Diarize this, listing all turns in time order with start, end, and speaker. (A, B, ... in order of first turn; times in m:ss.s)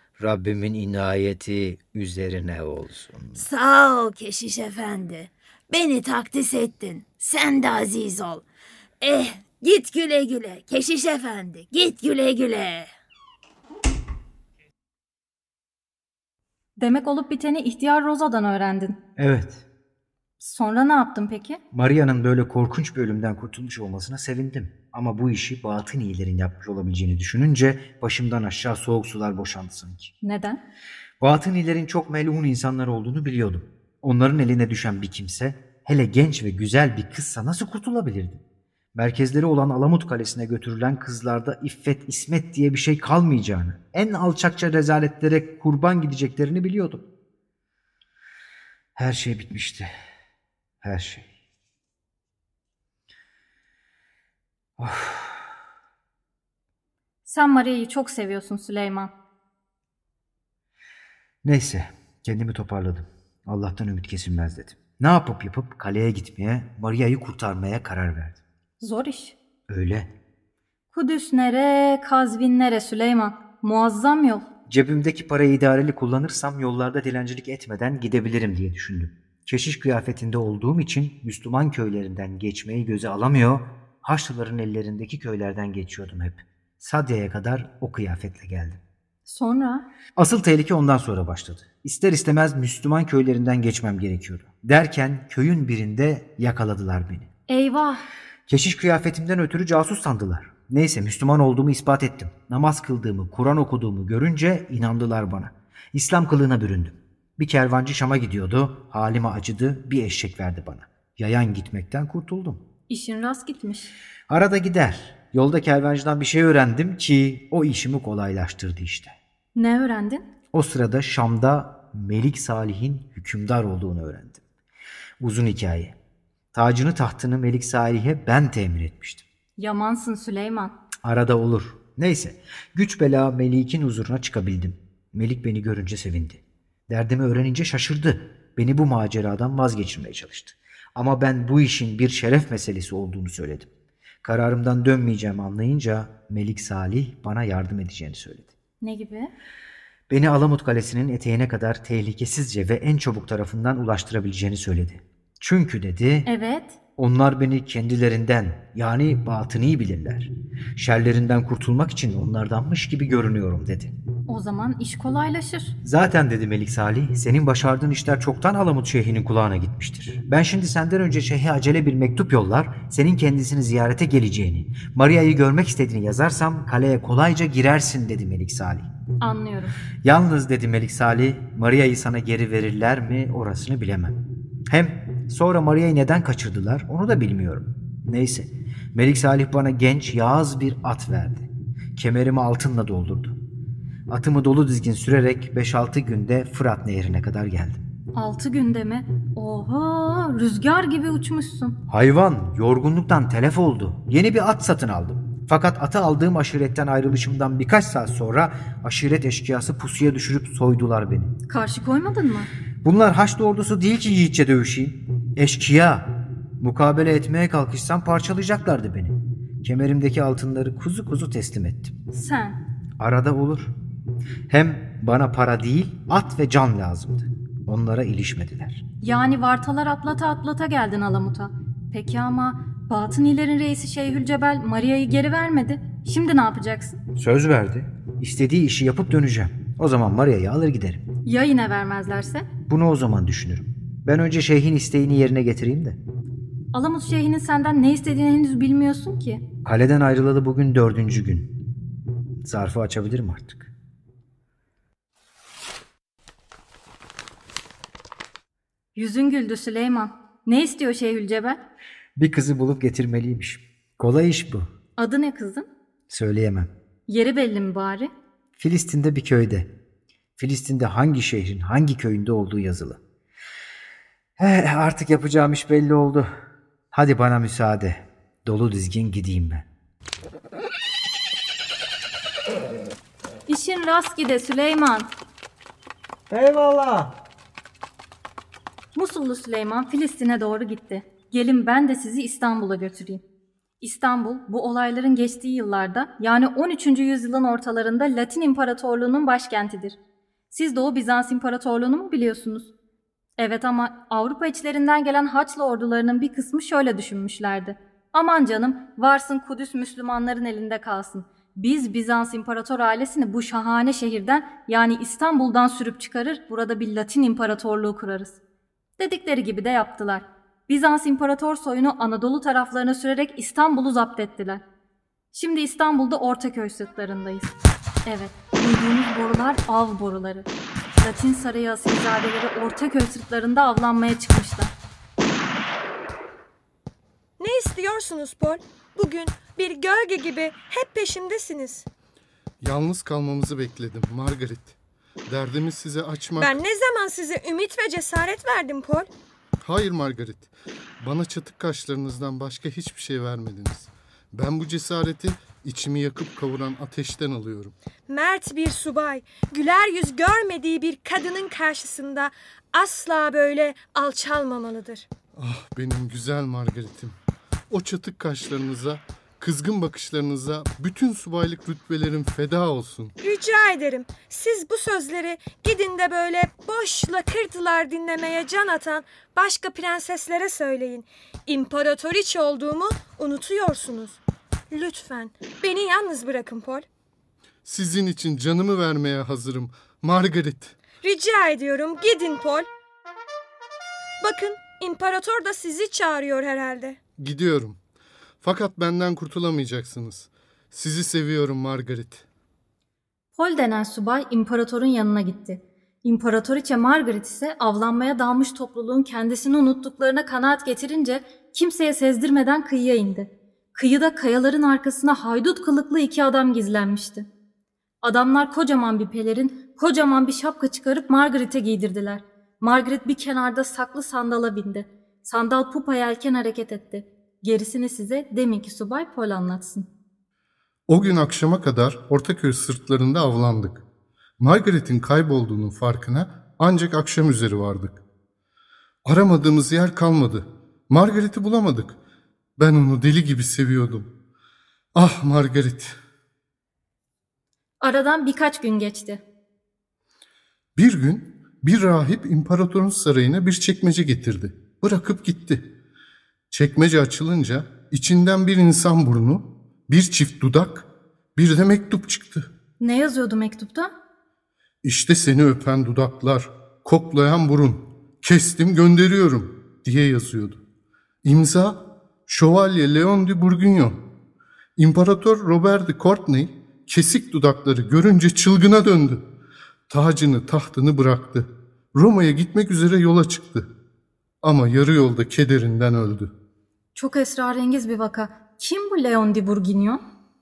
0:00.2-0:03.4 A
0:03.4-0:08.4 B
0:09.0-0:12.9 B
0:16.8-0:19.0 C
0:19.2-0:19.6 A
0:20.4-0:21.6 C
0:21.7-0:30.1 A
0:30.2-0:30.6 C
0:31.2-0:38.4 A
0:39.0-0:47.0 A
0:49.0-0:49.9 A
0:50.8-0:51.3 A
0:54.8-0:55.5 A
0:57.2-0:59.1 C
1:01.4-1:08.4 A
1:08.8-1:09.4 C
1:09.7-1:10.1 A
1:10.9-1:14.4 C
1:14.7-1:28.8 A
1:29.3-1:29.8 C
1:30.2-1:37.3 A
1:37.5-1:38.0 C
1:38.5-1:52.6 A
1:52.9-1:53.9 C
1:54.3-1:59.2 A
1:59.6-2:00.2 C
2:00.5-2:04.4 A
2:05.2-2:06.0 A
2:06.5-2:09.2 A
2:09.6-2:10.8 C
2:11.0-2:23.7 A
2:24.2-2:28.5 A
2:28.8-2:29.3 C
2:30.1-2:36.3 A
2:36.3-2:36.8 C
2:37.0-2:43.9 A
2:44.3-2:45.8 C
2:45.8-2:58.9 A
2:59.2-2:59.8 C
3:00.0-3:13.4 A
3:14.1-3:17.8 A
3:18.1-3:21.8 C
3:21.9-3:31.3 A
3:31.5-3:32.5 C
3:32.8-3:41.9 A
3:42.1-3:42.6 C
3:43.0-3:43.7 A
3:44.5-3:48.8 A
3:49.0-3:57.0 C
3:57.1-4:01.0 A
4:01.2-4:02.5 C
4:02.7-4:06.0 A
4:06.7-4:09.4 C
4:09.6-4:11.5 A
4:12.4-4:13.7 A
4:19.0-4:21.6 C
4:22.2-4:24.7 A
4:25.0-4:25.7 C
4:26.1-4:26.7 A
4:27.1-4:28.1 C
4:28.6-4:29.7 A
4:30.4-4:33.0 A
4:34.4-4:36.3 A
4:36.9-4:39.6 A
4:43.5-4:45.1 C
4:48.9-4:53.2 C
4:53.8-5:00.0 C
5:00.5-5:02.7 C
5:03.4-5:18.4 C
5:19.0-5:24.6 C
5:25.3-5:27.5 C
5:28.1-5:34.7 C
5:37.4-5:41.9 D
5:42.6-5:44.8 E
5:45.3-5:46.6 E
5:46.3-5:49.1 D
5:49.6-5:57.7 E
5:58.1-6:05.1 D
6:05.4-6:07.2 E
6:07.7-6:13.1 E
6:13.2-6:24.2 D
6:24.7-6:26.9 D
6:27.6-6:30.8 E
6:31.0-6:32.7 D
6:34.2-6:37.0 D
6:37.2-6:37.8 E
6:38.4-6:42.2 E
6:43.3-6:57.3 C
6:58.0-7:09.9 C
7:10.9-7:13.8 E
7:14.4-7:18.0 E
7:19.1-7:22.0 E
7:22.6-7:24.1 E
7:25.0-7:25.9 E
7:27.8-7:29.2 C
7:30.8-7:35.7 E
7:36.5-7:42.5 E
7:42.8-7:43.9 C
7:44.8-7:50.6 E
7:51.2-7:54.0 E
7:54.8-7:59.2 E
7:59.9-8:03.7 E
8:04.4-8:06.3 E
8:07.0-8:10.0 C